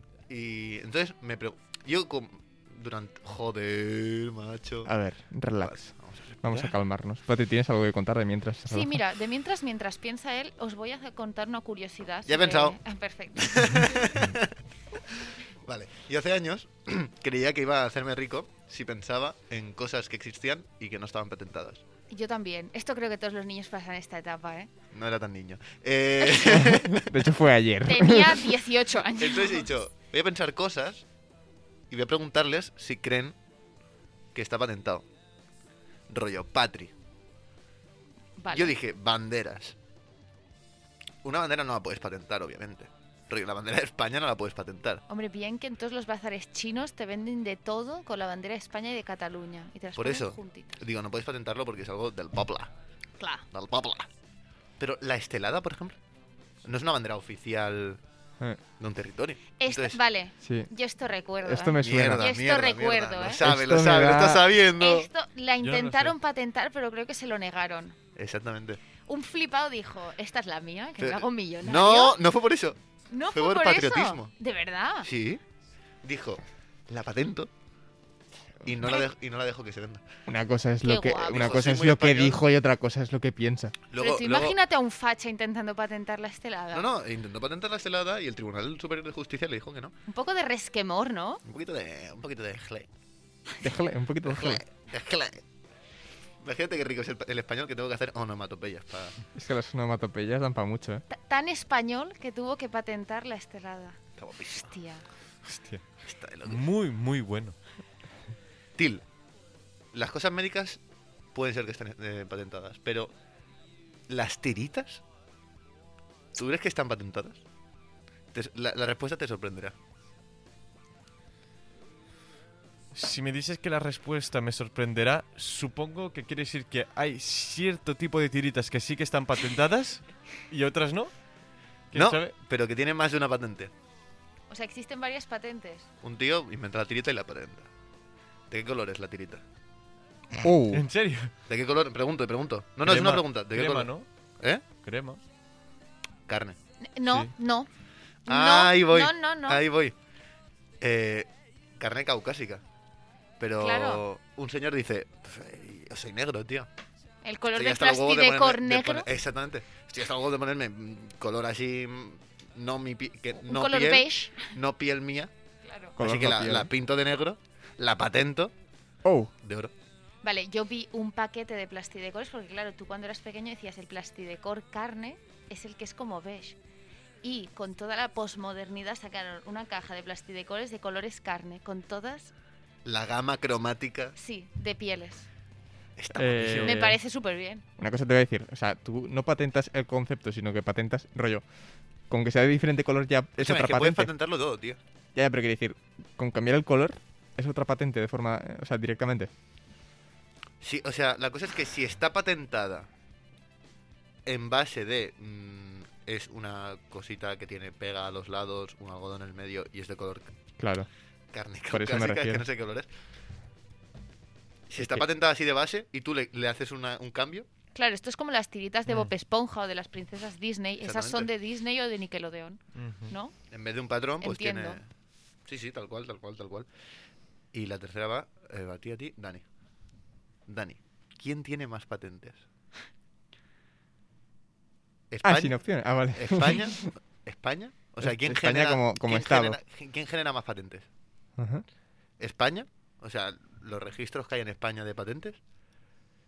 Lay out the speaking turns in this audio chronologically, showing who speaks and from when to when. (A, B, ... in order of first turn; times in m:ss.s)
0:00.3-0:04.9 A
0:04.8-0:09.0 B
0:05.6-0:06.8 A
0:08.7-0:13.9 C
0:12.3-0:12.8 A
0:13.4-0:14.6 A
0:15.6-0:21.8 A
0:22.1-0:24.7 C
0:24.9-0:27.3 A
0:26.5-0:28.5 B
0:27.8-0:29.7 C
0:29.2-0:31.0 A
0:31.9-0:33.4 A
0:34.3-0:35.0 A
0:36.1-0:36.9 A
0:38.4-0:38.8 C
0:38.5-0:39.8 A
0:41.2-0:45.0 A
0:45.1-0:50.8 C
0:50.0-0:52.7 A
0:53.2-0:53.4 C
0:53.5-0:54.1 A
0:54.8-0:56.0 A
0:56.6-0:58.0 A
0:58.8-1:00.0 A
0:59.6-1:03.4 C
1:00.4-1:00.7 B
1:01.4-1:02.3 B
1:01.8-1:05.1 A
1:03.4-1:04.5 B
1:04.8-1:08.0 C
1:05.6-1:06.1 D
1:08.2-1:08.8 A
1:09.1-1:12.2 C
1:11.0-1:12.8 A
1:13.1-1:15.1 C
1:13.3-1:14.3 A
1:15.0-1:15.4 A
1:16.0-1:17.5 A
1:18.6-1:20.0 A
1:20.3-1:23.8 B
1:20.8-1:21.6 C
1:21.2-1:22.4 A
1:23.9-1:24.6 A
1:24.0-1:26.9 C
1:26.7-1:29.9 A
1:30.1-1:31.4 C
1:31.4-1:32.9 A
1:33.6-1:34.6 B
1:34.2-1:35.4 A
1:36.4-1:39.1 A
1:39.4-1:41.0 B
1:41.1-1:44.0 C
1:44.2-1:44.7 A
1:44.5-1:45.0 C
1:45.5-1:45.8 D
1:46.0-1:46.6 A
1:46.4-1:47.6 D
1:48.8-1:49.0 A
1:49.9-1:50.8 A
1:51.3-1:53.1 A
1:54.1-1:55.0 A
1:56.4-1:57.4 A
1:58.3-1:59.8 A
2:02.9-2:11.1 D
2:11.9-2:12.3 D
2:12.0-2:13.7 A
2:14.5-2:15.9 C
2:16.0-2:17.7 A
2:18.5-2:19.4 A
2:20.4-2:20.9 B
2:20.7-2:21.3 D
2:21.5-2:24.6 A
2:22.8-2:24.1 D
2:24.8-2:25.2 D
2:26.3-2:26.6 A
2:26.8-2:27.7 C
2:27.1-2:27.3 D
2:28.3-2:29.6 C
2:28.3-2:30.0 A
2:30.8-2:31.3 A
2:31.8-2:32.6 A
2:33.4-2:36.7 A
2:33.6-2:34.0 C
2:37.2-2:39.1 C
2:37.6-2:45.3 A
2:43.4-2:44.5 C
2:45.6-2:46.0 C
2:46.0-2:46.7 B
2:46.0-2:48.5 A
2:49.0-2:49.3 B
2:49.4-2:49.7 A
2:50.2-2:56.6 C
2:57.2-3:02.3 C
3:02.8-3:04.1 A
3:04.2-3:05.3 C
3:06.0-3:06.8 A
3:06.1-3:07.0 B
3:06.6-3:07.6 C
3:07.8-3:11.4 B
3:12.1-3:14.1 B
3:13.4-3:14.8 A
3:15.1-3:19.3 B
3:20.6-3:22.9 A
3:24.3-3:30.4 A
3:30.6-3:30.9 B
3:31.3-3:32.9 A
3:31.7-3:32.4 B
3:34.7-3:37.5 A
3:34.8-3:35.0 B
3:37.8-3:43.3 C
3:40.8-3:41.3 A
3:42.8-3:43.1 D
3:43.5-3:44.9 A
3:44.2-3:44.8 C
3:45.4-3:46.7 A
3:47.5-3:49.4 A
3:50.5-3:52.4 A
3:55.1-4:00.9 A
3:55.2-3:56.9 B
3:58.0-3:59.6 B
4:01.4-4:01.6 B
4:02.2-4:05.4 A